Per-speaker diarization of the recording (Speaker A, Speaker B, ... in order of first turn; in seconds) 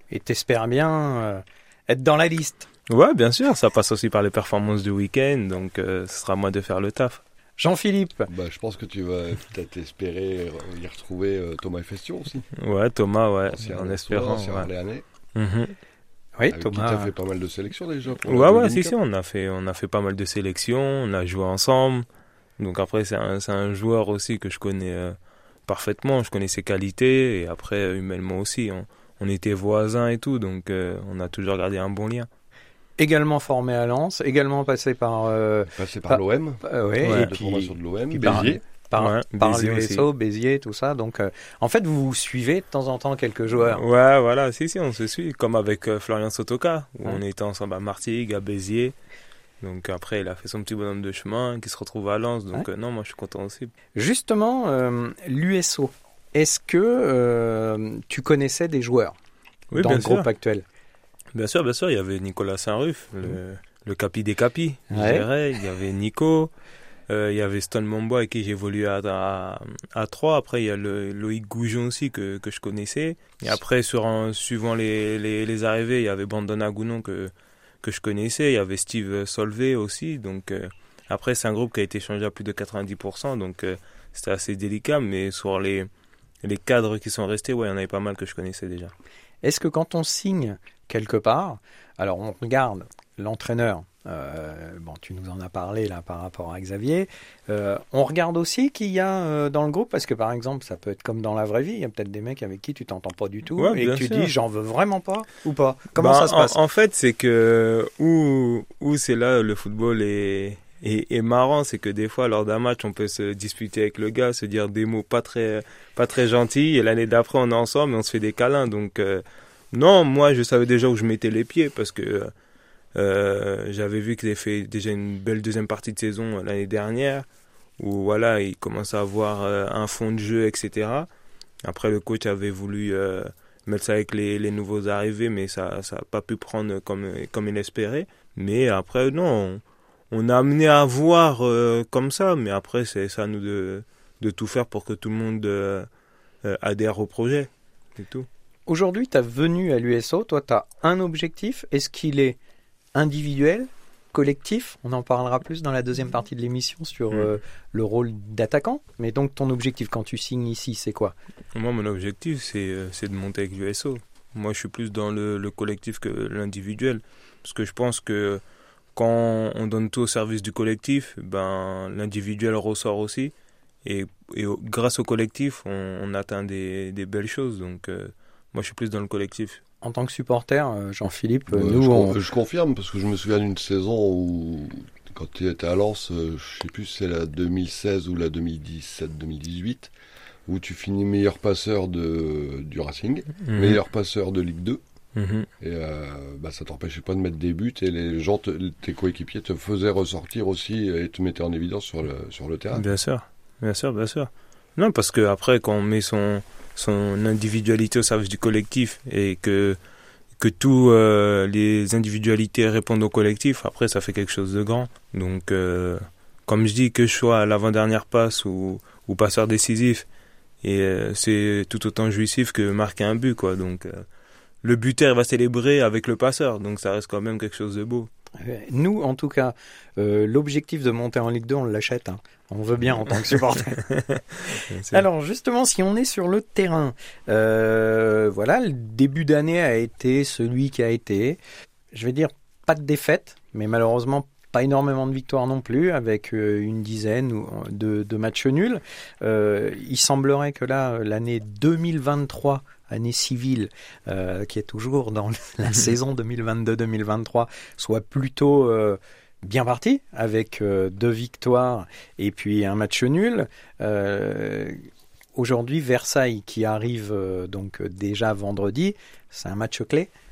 Speaker A: 0.1-2.7, 7.6-8.3, 16.4-17.1, 33.0-43.8, 54.0-59.1, 59.8-60.6, 64.9-65.2, 89.4-106.6, 148.7-152.4, 152.9-161.1, 179.8-182.2, 228.4-233.8, 234.9-241.4, 241.9-264.8, 265.3-270.1
Speaker B: 2.9-7.2, 12.6-14.7, 15.3-15.7, 18.2-22.1, 22.6-25.1, 25.7-32.3, 37.0-37.3, 39.0-40.0, 43.6-48.9, 49.6-53.7, 59.7-60.2, 61.3-66.5, 67.1-77.3, 77.8-85.9, 86.4-88.9, 103.5-104.3, 106.0-122.3, 122.9-127.2, 127.8-131.1, 131.6-145.9, 146.4-148.3, 161.5-168.4, 168.9-173.3, 173.8-179.6, 193.4-193.8, 195.2-195.5, 202.7-209.8, 210.4-220.1, 220.6-224.0, 224.6-228.1, 234.7-235.0
Speaker C: 8.3-12.4, 13.5-15.0, 16.5-18.9, 35.7-38.6, 181.5-189.9, 190.5-194.8, 195.6-202.8